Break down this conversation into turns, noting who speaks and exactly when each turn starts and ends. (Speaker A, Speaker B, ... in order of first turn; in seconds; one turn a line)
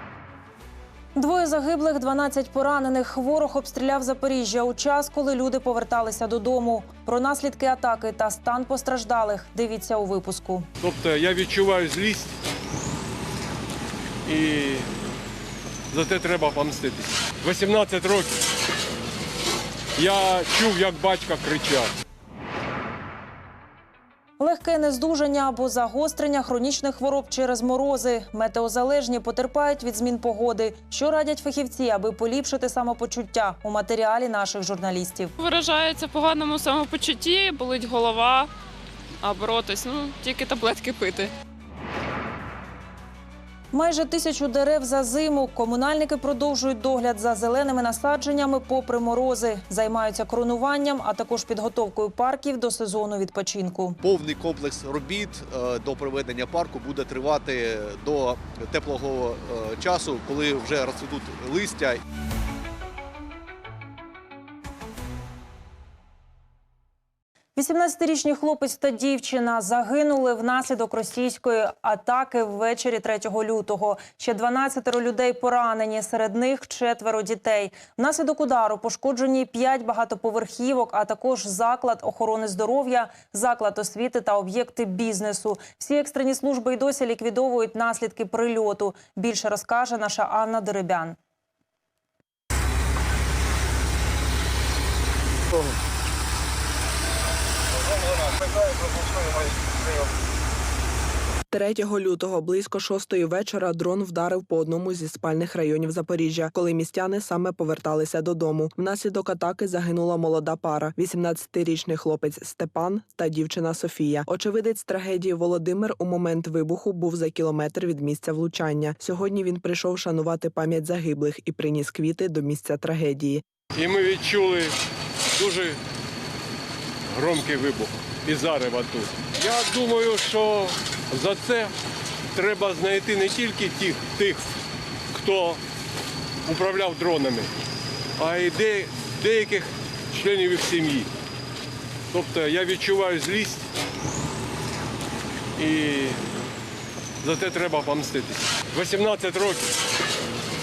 Speaker A: 1.1-10.7
Speaker B: 10.8-12.4
Speaker B: 14.2-14.9
Speaker B: 15.9-18.4
Speaker B: 20.0-21.9
Speaker A: 24.4-35.3
Speaker C: 35.4-38.5
Speaker C: 39.2-41.3
Speaker A: 43.7-54.0
Speaker D: 54.0-62.0
Speaker A: 67.6-91.2
Speaker E: 101.5-123.4
Speaker B: 123.7-124.7
Speaker B: 125.3-125.8
Speaker B: 127.1-131.7
Speaker B: 132.3-134.4
Speaker B: 135.1-135.6
Speaker B: 136.4-137.5
Speaker B: 138.2-141.1
Speaker B: 142.1-143.7
Speaker B: 145.6-146.2
Speaker B: 147.2-149.7